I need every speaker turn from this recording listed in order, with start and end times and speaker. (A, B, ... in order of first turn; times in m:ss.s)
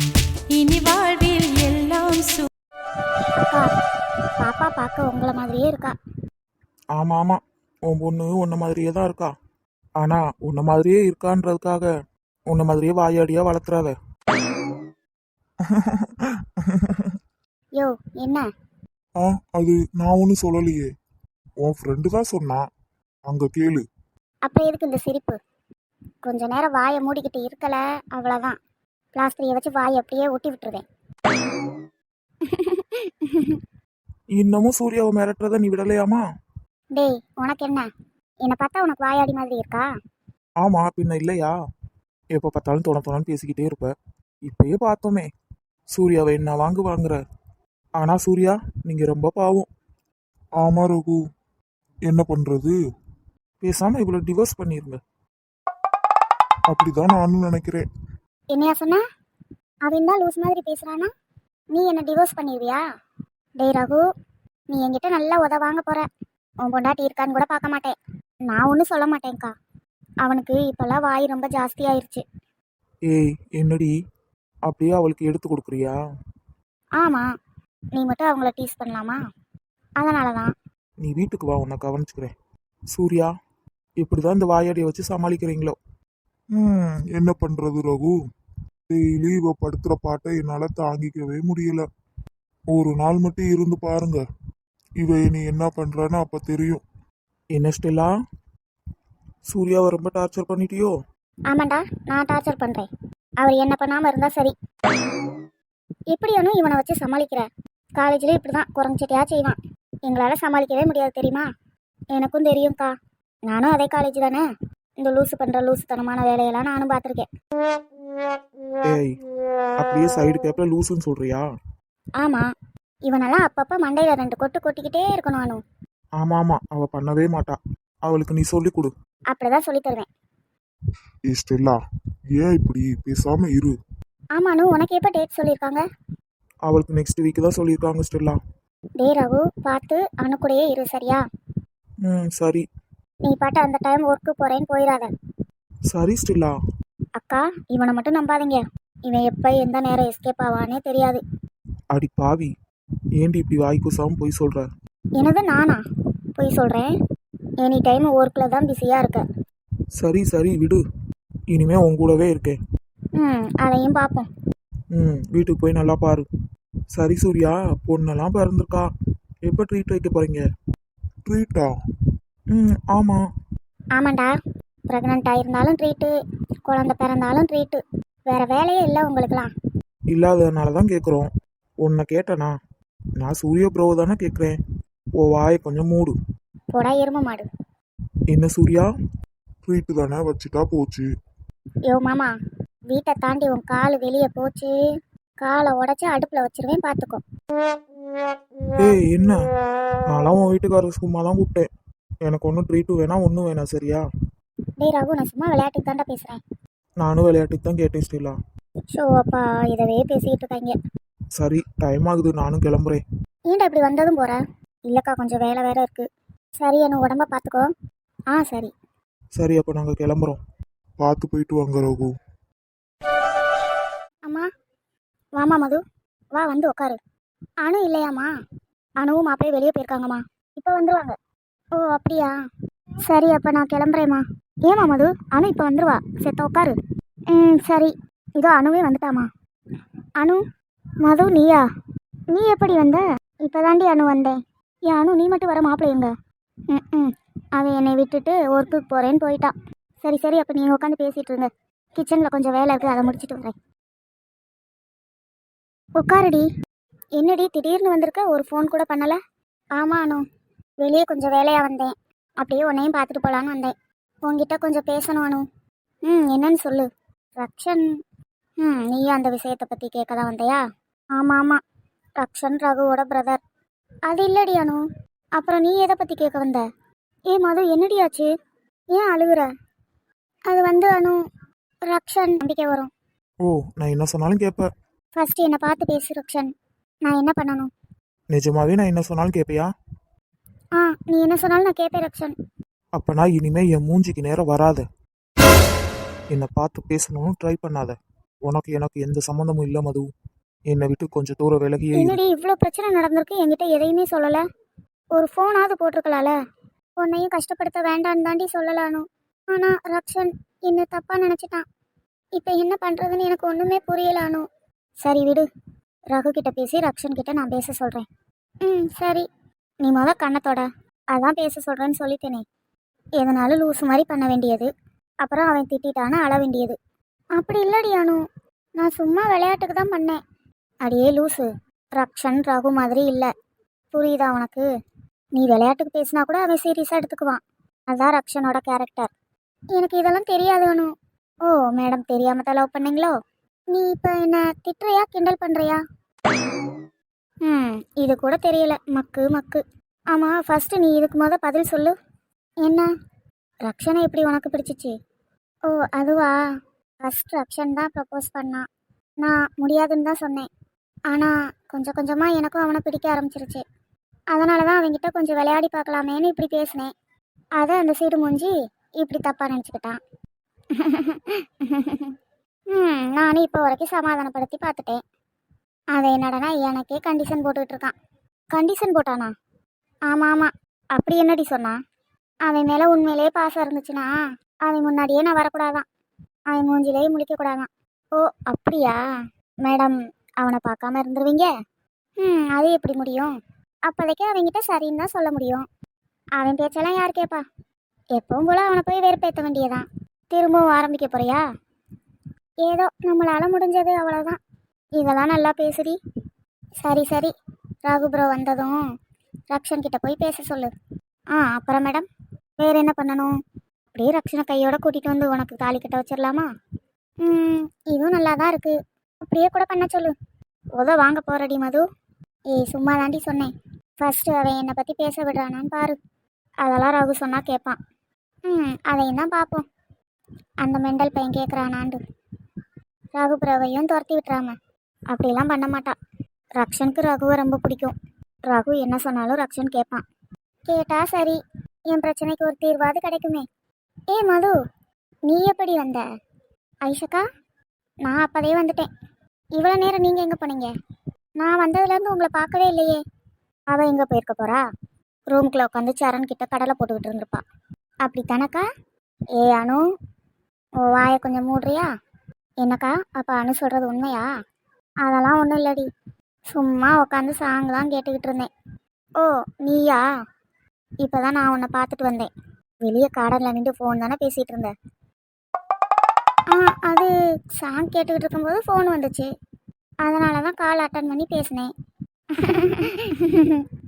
0:00.5-0:02.5 A
0:03.4-0:03.7 B
0:04.4-0:05.9 B
0:07.0-0:09.3 C
0:10.0-0:11.9 C
0:12.5-0:14.0 C
0:17.8-0:18.5 B
0:19.6-0:20.9 D
0:19.7-0:20.6 C
0:21.7-0:22.6 C
0:21.7-0:22.1 D
0:23.3-0:23.8 D
0:23.3-0:23.8 C
0:24.5-0:25.4 B
0:26.2-0:28.6 B
0:29.2-0:30.8 B
0:32.4-0:33.6 B
0:34.4-0:36.2 C
0:37.0-0:37.9 B
0:38.4-0:39.9 B
0:40.6-0:41.5 C
0:42.3-0:43.9 C
0:44.5-0:45.3 C
0:45.9-0:47.2 C
0:48.0-0:49.7 C
0:50.6-0:51.2 D
0:52.1-0:52.7 D
0:53.6-0:55.0 C
0:56.7-0:57.8 D
0:58.5-0:59.0 B
0:59.8-1:01.1 B
1:01.7-1:02.8 B
1:03.6-1:04.0 B
1:04.7-1:06.1 B
1:06.6-1:08.0 B
1:08.5-1:09.5 B
1:10.2-1:12.2 B
1:13.1-1:13.9 C
1:14.7-1:16.0 C
1:17.0-1:17.3 B
1:18.0-1:19.2 B
1:20.0-1:20.5 B
1:21.0-1:22.3 C
1:22.9-1:23.3 C
1:24.0-1:25.8 C
1:26.6-1:28.1 D
1:28.9-1:31.8 D
1:32.7-1:34.2 D
1:35.0-1:36.8 D
1:37.5-1:38.1 C
1:39.5-1:41.0 C
1:41.5-1:42.9 B
1:43.4-1:44.5 B
1:46.1-1:47.4 B
1:48.0-1:51.5 B
1:52.1-1:52.9 B
1:53.5-1:54.4 B
1:55.0-1:57.3 B
1:58.8-1:59.2 C
1:59.8-2:01.4 C
2:03.1-2:05.6 B
2:06.2-2:08.9 C
2:09.3-2:10.1 B
2:11.3-2:11.8 D
2:12.4-2:13.7 D
2:14.4-2:15.8 B
2:16.7-2:18.4 C
2:19.0-2:21.2 B
2:22.0-2:22.6 C
2:23.2-2:25.1 B
2:25.9-2:26.6 C
2:27.2-2:31.2 B
2:31.9-2:32.5 C
2:33.2-2:34.7 C
2:35.2-2:35.8 B
2:36.4-2:36.9 B
2:37.6-2:39.2 B
2:40.0-2:40.8 C
2:41.5-2:42.6 C
2:43.2-2:44.3 B
2:44.9-2:46.3 C
2:46.9-2:48.9 C
2:49.5-2:50.4 C
2:51.3-2:51.7 C
2:52.5-2:53.2 C
2:54.0-2:54.4 B
2:54.9-2:56.1 B
2:56.7-2:59.5 B
3:00.1-3:01.3 C
3:01.8-3:02.5 C
3:03.2-3:04.6 C
3:05.2-3:06.1 C
3:06.7-3:07.5 B
3:08.3-3:08.9 C
3:09.7-3:11.1 D
3:11.9-3:12.3 B
3:12.9-3:14.7 B
3:15.4-3:17.2 B
3:18.8-3:19.4 C
3:20.1-3:21.7 C
3:22.2-3:24.0 C
3:24.8-3:26.4 B
3:27.0-3:28.4 C
3:28.9-3:30.8 B
3:31.4-3:33.0 C
3:33.5-3:36.1 B
3:36.6-3:37.7 B
3:38.3-3:38.7 B
3:39.4-3:40.4 C
3:41.0-3:41.9 D
3:41.0-3:42.0 C
3:45.4-3:45.8 B
3:46.4-3:47.0 B
3:47.6-3:48.3 B
3:49.0-3:51.2 B
3:51.8-3:52.3 B
3:53.1-3:56.7 B
3:57.3-3:59.3 B
4:01.0-4:01.6 B
4:02.3-4:04.4 B
4:04.9-4:06.1 B
4:06.7-4:13.5 B
4:16.0-4:16.5 B
4:17.2-4:19.2 B
4:19.8-4:20.2 B
4:20.8-4:25.4 B
4:26.1-4:27.8 B
4:28.6-4:30.6 B
4:31.2-4:31.6 B
4:32.2-4:33.4 B
4:34.1-4:34.8 B
4:35.4-4:36.6 B
4:37.3-4:38.3 B
4:38.9-4:39.5 B
4:40.5-4:41.2 B
4:41.9-4:42.9 B
4:43.5-4:44.7 C
4:45.2-4:46.5 B
4:47.0-4:47.7 B
4:48.3-4:49.7 C
4:50.8-4:52.3 B
4:53.0-4:54.8 C
4:56.3-5:00.1 C
5:00.7-5:02.2 C
5:01.9-5:04.4 B
5:05.1-5:06.4 B
5:07.0-5:11.6 B
5:12.4-5:14.4 B
5:15.0-5:15.5 B
5:16.1-5:18.1 B
5:18.6-5:19.3 B
5:19.8-5:22.4 B
5:23.2-5:24.7 B
5:25.2-5:26.8 B
5:27.4-5:28.2 B
5:28.8-5:30.2 B
5:30.8-5:33.3 B
5:33.9-5:34.6 B
5:35.4-5:39.1 B
5:39.7-5:40.9 B
5:41.5-5:43.1 B
5:43.7-5:45.8 B
5:47.4-5:51.9 B
5:52.6-5:52.9 B
5:53.6-5:54.9 B
5:55.7-5:56.3 B
5:57.0-5:58.6 B
5:59.2-6:00.5 B
6:01.1-6:03.6 B
6:04.3-6:06.9 B
6:07.6-6:10.0 B
6:10.8-6:12.1 B
6:12.7-6:15.0 B
6:15.9-6:17.9 B
6:18.5-6:19.3 B
6:20.1-6:21.8 B
6:22.5-6:24.1 B
6:24.7-6:25.9 B
6:26.5-6:29.0 B
6:29.6-6:31.5 B
6:32.2-6:33.3 B
6:33.9-6:35.6 B
6:36.4-6:37.4 B
6:38.2-6:41.4 B
6:42.6-6:44.4 B
6:45.0-6:46.0 B
6:46.8-6:47.3 B
6:47.9-6:48.8 B
6:49.5-6:50.7 B
6:51.4-6:52.0 B
6:52.6-6:53.3 B
6:53.9-6:56.5 B
6:57.2-7:00.1 B
7:00.8-7:01.8 B
7:02.5-7:06.0 B
7:06.6-7:07.8 B
7:08.5-7:09.6 B
7:10.6-7:12.0 B
7:13.2-7:14.6 B
7:15.1-7:15.9 B
7:16.6-7:17.9 B
7:18.5-7:20.0 B
7:20.6-7:21.4 B
7:21.9-7:23.4 B
7:24.1-7:24.6 B
7:25.3-7:26.0 B
7:26.9-7:27.2 B
7:28.0-7:28.9 B
7:29.6-7:30.7 B
7:31.4-7:33.0 B
7:33.7-7:34.6 B
7:35.3-7:37.4 B
7:38.0-7:38.6 B
7:39.4-7:39.8 B
7:40.9-7:41.9 B
7:42.6-7:44.2 B
7:45.0-7:45.8 B
7:46.5-7:48.5 B
7:49.2-7:50.0 B
7:51.0-7:52.3 B
7:52.8-7:54.7 B
7:56.5-7:59.3 B
8:00.0-8:01.7 B
8:02.4-8:03.7 B